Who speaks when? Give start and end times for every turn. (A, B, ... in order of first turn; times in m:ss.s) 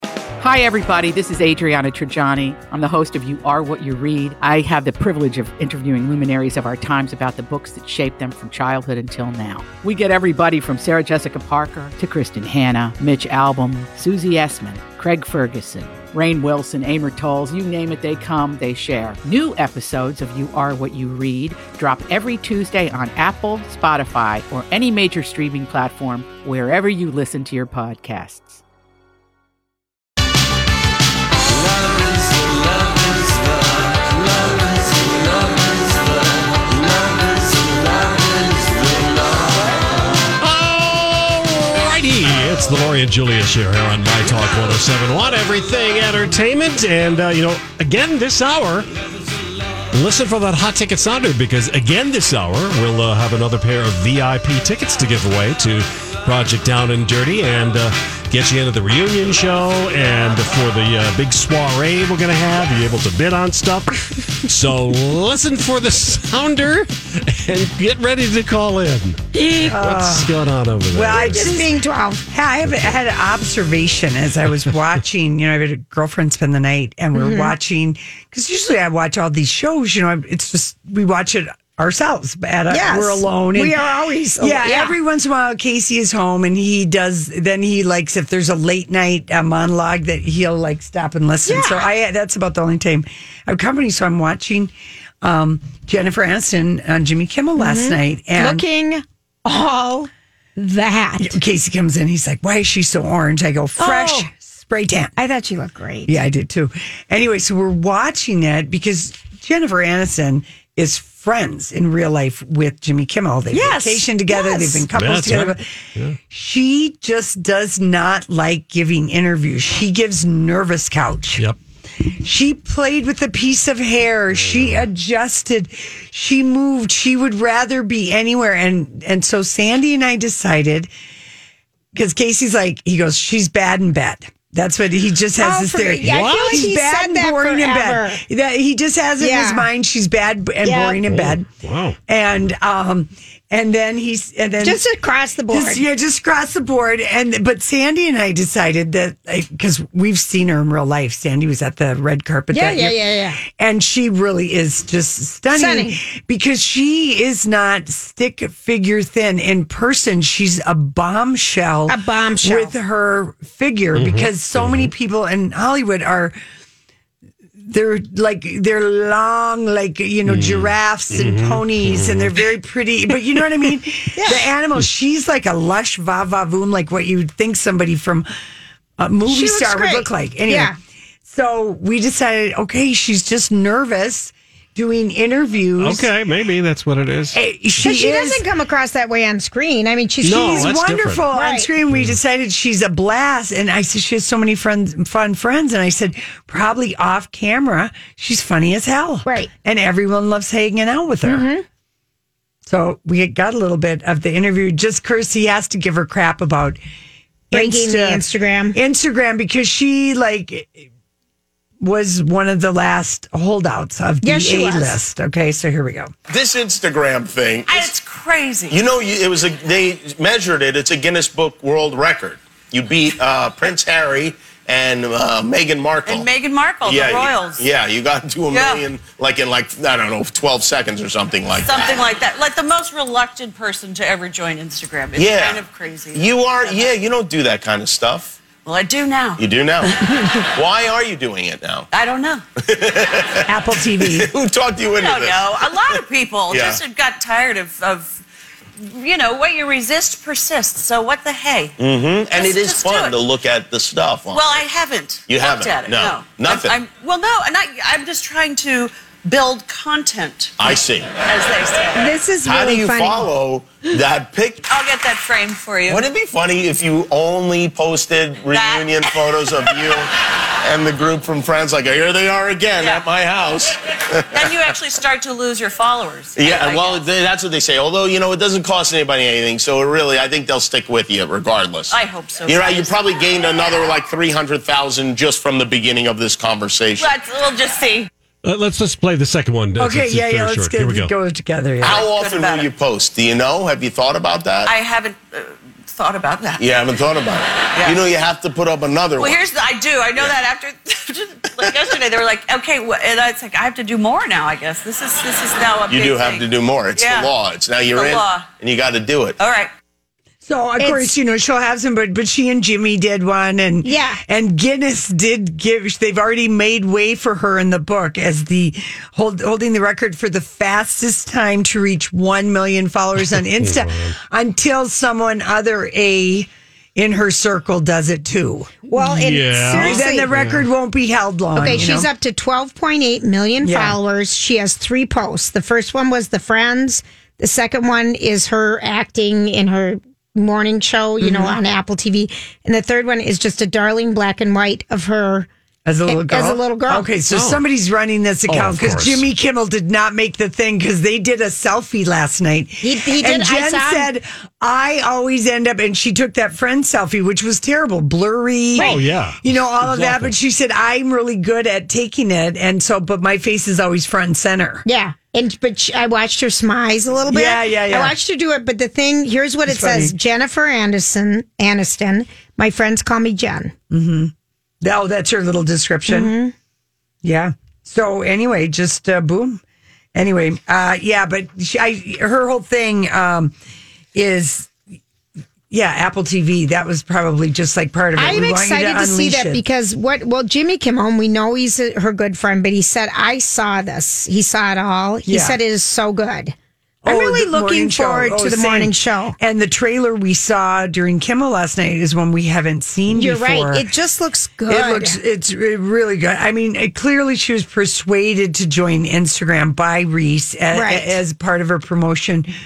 0:00.4-0:28.6 A
0:40.4-0:48.9 B
0:49.9-1:11.5 B
1:09.6-1:10.3 C
1:10.9-1:23.8 C
1:11.1-1:12.2 D
1:12.6-1:13.0 B
1:17.2-1:17.5 D
1:22.7-1:25.0 D
1:24.4-1:38.6 C
1:31.5-1:31.9 D
1:37.6-1:41.4 D
1:41.2-1:45.2 C
1:43.8-1:44.3 D
1:45.2-1:46.2 D
1:46.1-2:01.4 C
1:53.5-1:54.9 D
1:55.0-1:56.2 B
2:02.1-2:10.9 C
2:04.4-2:04.8 B
2:11.9-2:21.5 C
2:15.4-2:18.2 D
2:16.1-2:16.7 B
2:19.2-2:19.7 D
2:20.6-2:21.0 D
2:21.1-2:22.0 B
2:22.1-2:24.8 C
2:24.6-2:25.8 D
2:25.5-2:46.4 C
2:32.5-2:33.4 D
2:35.5-2:36.0 D
2:41.9-2:42.7 D
2:44.0-2:44.9 B
2:47.6-2:58.3 C
2:50.3-2:52.4 B
2:54.2-2:54.5 D
2:59.0-3:06.1 C
2:59.3-3:00.8 D
3:05.8-3:07.4 B
3:07.3-3:08.4 C
3:07.8-3:10.8 D
3:10.2-3:11.2 B
3:10.3-3:21.5 C
3:11.3-3:11.7 D
3:19.2-3:19.5 D
3:21.2-3:21.6 D
3:22.6-3:26.8 C
3:27.5-3:28.8 D
3:27.5-3:30.9 C
3:31.8-3:36.1 C
3:34.2-3:35.0 D
3:36.3-3:37.9 E
3:37.7-3:38.8 F
3:38.7-3:46.3 E
3:46.0-3:47.7 F
3:46.8-3:51.9 E
3:48.5-3:48.9 F
3:51.6-3:57.0 F
3:55.2-3:55.6 E
3:56.1-3:58.4 E
3:58.6-4:00.0 F
3:59.4-4:00.0 E
4:00.5-4:01.9 E
4:01.9-4:02.4 F
4:02.6-4:03.5 E
4:03.5-4:04.3 C
4:04.0-4:06.0 E
4:04.9-4:08.2 F
4:06.5-4:06.8 E
4:08.8-4:11.8 F
4:11.8-4:14.4 E
4:12.3-4:13.2 F
4:14.3-4:22.2 F
4:15.3-4:16.8 E
4:20.6-4:21.2 E
4:22.0-4:23.3 D
4:22.4-4:24.6 E
4:24.7-4:26.1 F
4:25.9-4:30.1 E
4:28.5-4:29.8 F
4:30.6-4:34.5 E
4:32.8-4:33.1 F
4:34.3-4:37.1 F
4:36.4-4:41.9 E
4:41.9-4:43.2 F
4:42.5-4:47.1 E
4:47.0-4:48.1 F
4:48.4-4:51.1 B
4:49.8-4:52.1 C
4:51.8-4:54.7 E
4:51.8-4:52.7 F
4:54.7-4:56.7 F
4:56.6-4:59.4 E
4:57.8-4:58.0 F
4:59.2-5:08.5 F
5:05.9-5:09.4 E
5:09.4-5:09.7 F
5:10.4-5:28.8 C
5:10.8-5:11.2 D
5:13.8-5:14.2 D
5:23.5-5:24.1 B
5:28.9-5:30.3 D
5:29.0-5:30.6 B
5:29.7-5:32.1 C
5:31.6-5:45.5 D
5:33.6-5:34.0 C
5:41.2-5:41.6 C
5:45.9-6:04.8 C
5:46.1-5:47.1 D
5:47.3-5:47.6 B
5:48.5-5:49.2 B
5:52.8-5:54.1 D
5:58.8-6:00.4 B
6:04.9-6:13.7 D
6:07.3-6:08.2 C
6:09.7-6:10.2 C
6:13.9-6:16.3 C
6:16.1-6:16.5 D
6:17.2-6:19.6 C
6:20.1-6:23.6 C
6:24.1-6:24.7 C
6:25.7-6:29.6 C
6:28.2-6:39.4 D
6:35.3-6:35.6 C
6:37.0-6:43.8 C
6:43.1-6:45.2 D
6:44.7-6:52.5 C
6:50.7-6:51.2 D